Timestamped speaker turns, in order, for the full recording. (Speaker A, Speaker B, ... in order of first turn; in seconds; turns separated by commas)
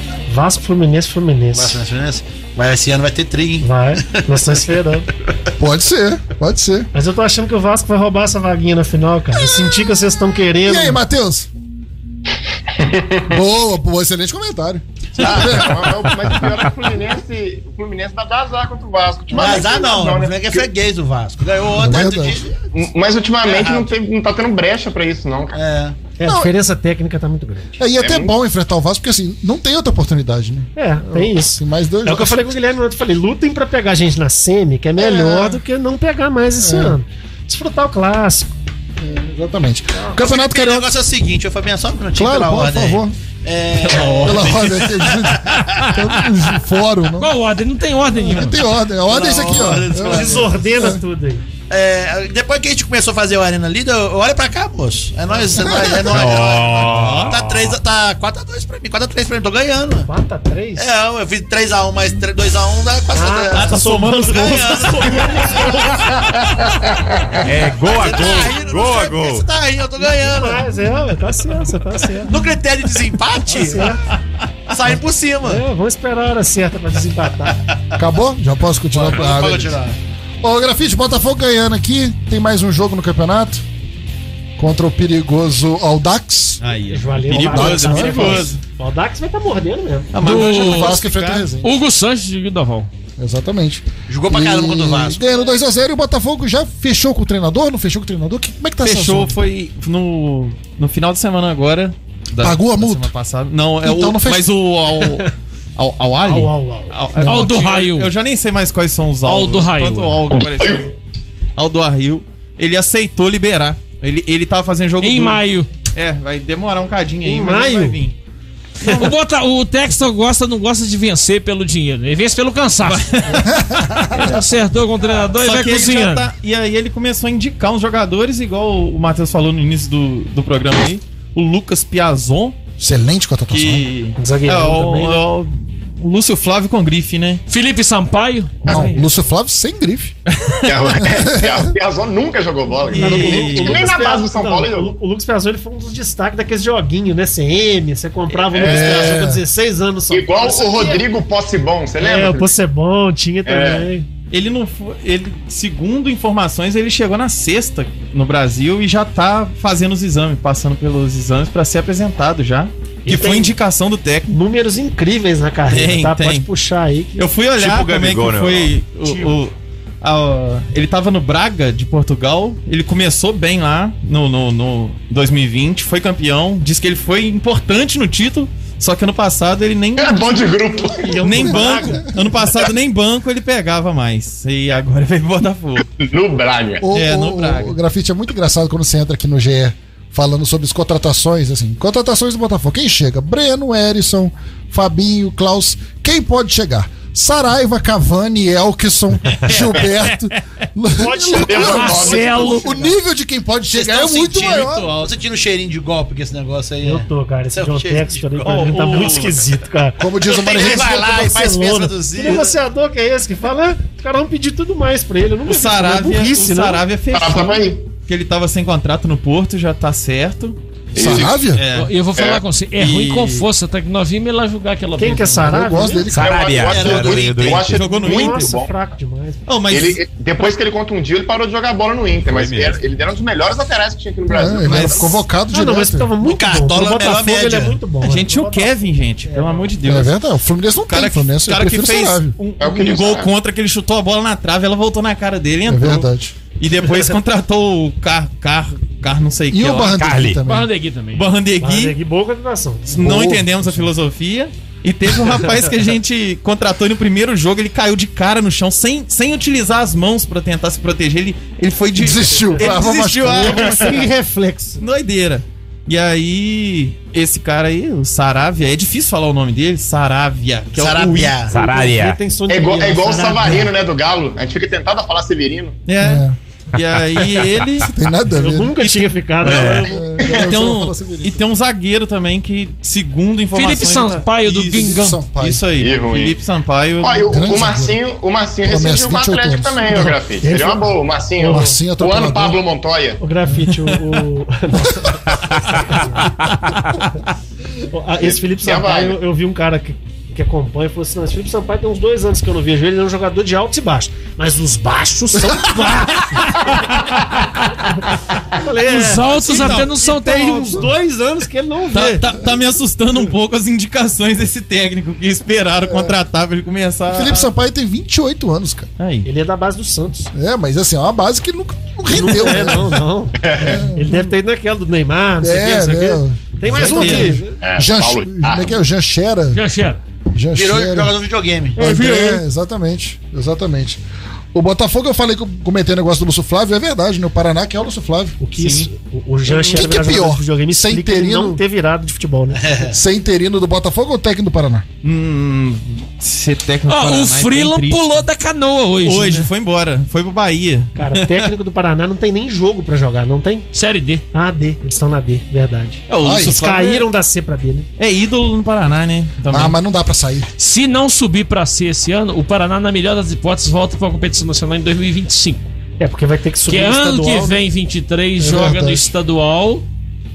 Speaker A: 0.3-1.8, Speaker B: 1.5-4.2, Speaker A: 3.6-5.1, Speaker C: 5.6-6.9, Speaker A: 6.9-11.0, Speaker C: 10.6-11.5, Speaker D: 12.7-13.3, Speaker C: 13.3-16.4, Speaker D: 15.2-20.7, Speaker B: 19.3-22.7, Speaker C: 21.8-22.4, Speaker D: 22.7-25.6, Speaker B: 23.4-23.9, Speaker B: 25.5-26.0, Speaker A: 26.2-27.8, Speaker C: 26.2-26.5, Speaker C: 27.8-32.5, Speaker D: 28.0-28.3, Speaker A: 30.8-38.5, Speaker C: 35.0-35.6, Speaker C: 36.6-37.0, Speaker C: 39.0-40.9, Speaker A: 39.9-40.2, Speaker B: 40.2-45.8, Speaker C: 42.2-43.1, Speaker E: 43.9-45.0, Speaker C: 44.2-47.3, Speaker F: 47.2-48.6, Speaker C: 48.2-51.0, Speaker B: 49.0-50.6, Speaker A: 49.9-51.4, Speaker B: 51.7-60.1, Speaker C: 55.6-56.0, Speaker G: 56.0-57.4, Speaker E: 56.3-57.7, Speaker A: 60.0-60.9, Speaker B: 60.8-66.0, Speaker A: 63.1-66.2, Speaker E: 63.7-65.3, Speaker G: 67.4-69.5, Speaker B: 67.8-70.7, Speaker A: 70.0-72.4, Speaker B: 72.3-73.9, Speaker A: 73.5-74.0, Speaker B: 74.7-75.6, Speaker A: 75.4-77.6, Speaker C: 78.0-79.8, Speaker B: 78.9-80.0, Speaker C: 80.4-83.6, Speaker C: 84.6-86.6, Speaker E: 86.6-88.6, Speaker A: 86.9-90.2, Speaker C: 87.3-88.5, Speaker E: 90.1-91.5, Speaker C: 90.2-91.7, Speaker F: 90.2-91.0, Speaker F: 91.6-92.9, Speaker C: 93.2-99.4, Speaker B: 94.1-95.3, Speaker E: 98.8-110.9, Speaker C: 102.4-103.1, Speaker C: 103.8-104.5, Speaker A: 106.2-107.0, Speaker C: 107.2-107.5, Speaker F: 107.2-108.1, Speaker F: 109.2-110.2, Speaker D: 110.6-110.8, Speaker E: 111.6-118.2, Speaker F: 115.0-115.7, Speaker A: 117.2-118.0, Speaker E: 118.8-119.1, Speaker F: 118.8-123.4, Speaker E: 122.8-123.5, Speaker C: 123.5-124.3, Speaker F: 124.1-126.3, Speaker E: 125.4-132.6, Speaker C: 132.8-133.9, Speaker E: 133.5-137.4, Speaker A: 134.2-135.3, Speaker F: 137.5-139.0, Speaker C: 138.7-140.2, Speaker E: 140.3-140.7, Speaker D: 140.7-144.9, Speaker C: 141.0-141.7, Speaker E: 142.9-143.9, Speaker A: 142.9-151.1, Speaker D: 148.5-149.2, Speaker C: 148.6-149.4, Speaker D: 150.1-152.5, Speaker A: 152.0-154.1, Speaker D: 153.4-153.9, Speaker E: 154.3-164.3, Speaker A: 163.1-163.6, Speaker A: 164.3-167.2, Speaker E: 165.7-166.5, Speaker E: 167.2-180.2, Speaker G: 167.6-168.8, Speaker D: 180.0-181.5, Speaker A: 181.0-182.4, Speaker E: 181.2-185.9, Speaker D: 185.9-186.9, Speaker C: 186.8-204.9, Speaker E: 186.9-187.8, Speaker E: 199.4-200.3, Speaker A: 200.9-203.0, Speaker D: 201.5-202.4, Speaker F: 201.6-202.7, Speaker B: 203.7-209.0, Speaker E: 204.6-205.1, Speaker A: 206.8-216.8, Speaker E: 208.4-209.4, Speaker C: 210.0-211.2, Speaker B: 210.3-212.5, Speaker D: 210.4-211.1, Speaker E: 215.4-220.6, Speaker D: 217.1-217.9, Speaker D: 220.9-221.5, Speaker C: 221.0-221.6, Speaker E: 221.5-221.9, Speaker F: 221.7-225.8, Speaker D: 222.2-222.4, Speaker E: 222.8-223.5, Speaker A: 225.0-226.1, Speaker C: 225.5-226.5, Speaker G: 226.1-227.8, Speaker D: 226.1-228.7, Speaker B: 226.5-227.6, Speaker E: 227.6-228.6, Speaker A: 227.7-229.5, Speaker E: 229.5-230.0, Speaker D: 229.7-235.2, Speaker G: 232.3-232.8, Speaker C: 234.3-236.1, Speaker E: 234.6-235.1, Speaker A: 235.5-239.7, Speaker B: 236.2-237.8, Speaker E: 238.0-240.2, Speaker C: 239.8-242.3, Speaker E: 240.8-250.0, Speaker D: 242.6-243.3, Speaker C: 245.7-246.3, Speaker C: 249.5-250.7, Speaker G: 249.9-250.4, Speaker F: 250.4-251.3, Speaker E: 251.2-251.9, Speaker A: 251.6-253.2, Speaker E: 252.9-264.0, Speaker C: 252.9-253.9, Speaker C: 262.0-264.0, Speaker A: 263.2-264.9, Speaker E: 264.8-271.5, Speaker B: 270.7-271.6, Speaker G: 271.5-272.2, Speaker A: 271.6-273.7, Speaker D: 272.5-275.8, Speaker E: 275.9-277.9, Speaker C: 276.0-276.4, Speaker C: 277.9-278.7, Speaker A: 278.4-280.2, Speaker E: 278.8-287.3, Speaker G: 279.4-279.9, Speaker C: 279.9-281.4, Speaker D: 280.2-280.6, Speaker F: 283.5-285.2, Speaker C: 284.7-285.6, Speaker D: 285.8-286.4, Speaker D: 287.0-293.2, Speaker C: 287.3-288.0, Speaker C: 288.6-290.8, Speaker A: 290.4-290.8, Speaker A: 291.4-291.8, Speaker C: 291.4-292.6, Speaker A: 293.2-296.3, Speaker A: 297.9-306.8, Speaker D: 298.2-299.2, Speaker A: 308.5-312.3, Speaker F: 308.9-310.9, Speaker E: 309.1-309.9, Speaker E: 311.9-317.5, Speaker C: 315.8-316.1, Speaker C: 317.1-318.9, Speaker E: 319.0-319.3, Speaker A: 319.2-320.3, Speaker C: 320.3-323.0, Speaker A: 322.1-323.4, Speaker D: 323.4-323.9, Speaker C: 323.6-324.2, Speaker A: 323.9-327.5, Speaker C: 325.4-329.6, Speaker E: 326.7-327.4, Speaker D: 327.6-328.8, Speaker F: 329.5-330.0, Speaker C: 330.3-331.1, Speaker B: 330.5-331.8, Speaker C: 331.8-334.0, Speaker F: 331.9-332.1, Speaker C: 334.5-338.4, Speaker A: 338.4-342.9, Speaker E: 338.6-338.9, Speaker E: 339.5-339.9, Speaker C: 339.7-341.6, Speaker B: 342.6-342.9, Speaker C: 342.9-344.9, Speaker E: 345.0-348.2, Speaker F: 346.9-349.5, Speaker E: 349.0-351.5, Speaker A: 351.0-353.7, Speaker F: 353.7-354.2, Speaker A: 354.3-357.9, Speaker E: 356.1-357.1, Speaker C: 356.2-356.6, Speaker E: 358.0-359.8, Speaker C: 359.5-360.5, Speaker F: 360.6-365.7, Speaker A: 366.0-367.6, Speaker F: 366.7-369.9, Speaker C: 368.4-369.0